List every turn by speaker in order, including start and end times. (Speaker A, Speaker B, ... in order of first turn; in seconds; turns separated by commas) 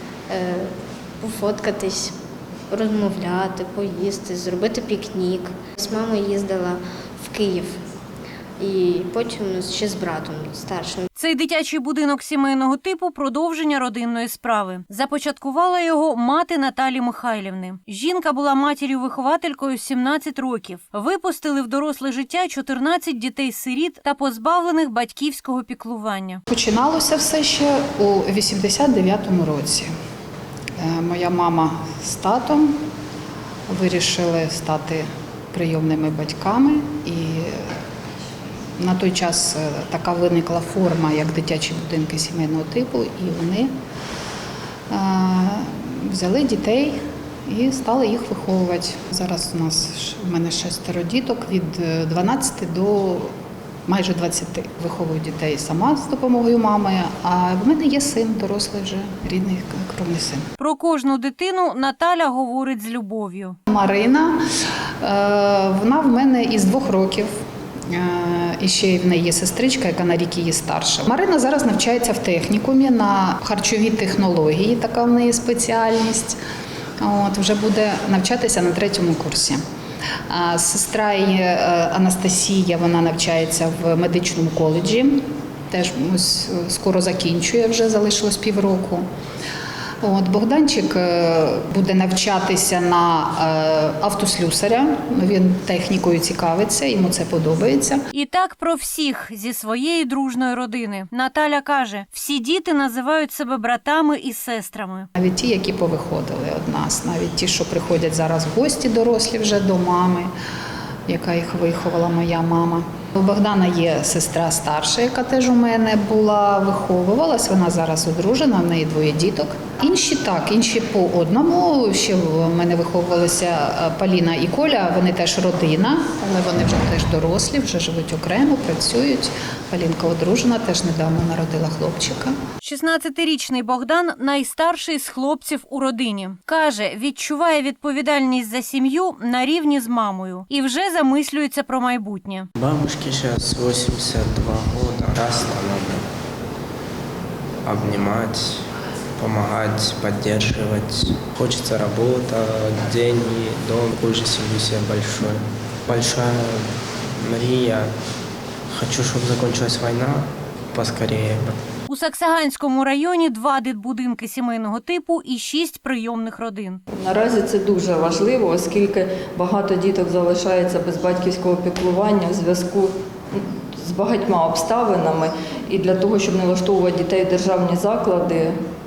Speaker A: 0.3-2.1, Speaker A: 2.7-7.8, Speaker A: 8.6-11.1, Speaker B: 11.2-26.4, Speaker C: 26.5-29.9, Speaker C: 30.8-32.8, Speaker C: 33.7-37.7, Speaker C: 38.8-43.7, Speaker C: 44.9-53.3, Speaker C: 53.9-60.4, Speaker B: 60.6-63.6, Speaker C: 63.7-64.4, Speaker C: 65.0-67.3, Speaker C: 67.9-76.4, Speaker C: 77.0-79.6, Speaker C: 80.3-89.0, Speaker C: 90.0-98.0, Speaker B: 98.1-105.1, Speaker C: 105.2-110.3, Speaker C: 111.1-132.3, Speaker B: 132.6-142.5, Speaker D: 142.6-146.1, Speaker D: 147.7-148.6, Speaker D: 149.2-157.9, Speaker D: 158.7-161.5, Speaker B: 161.9-166.8, Speaker E: 167.0-178.5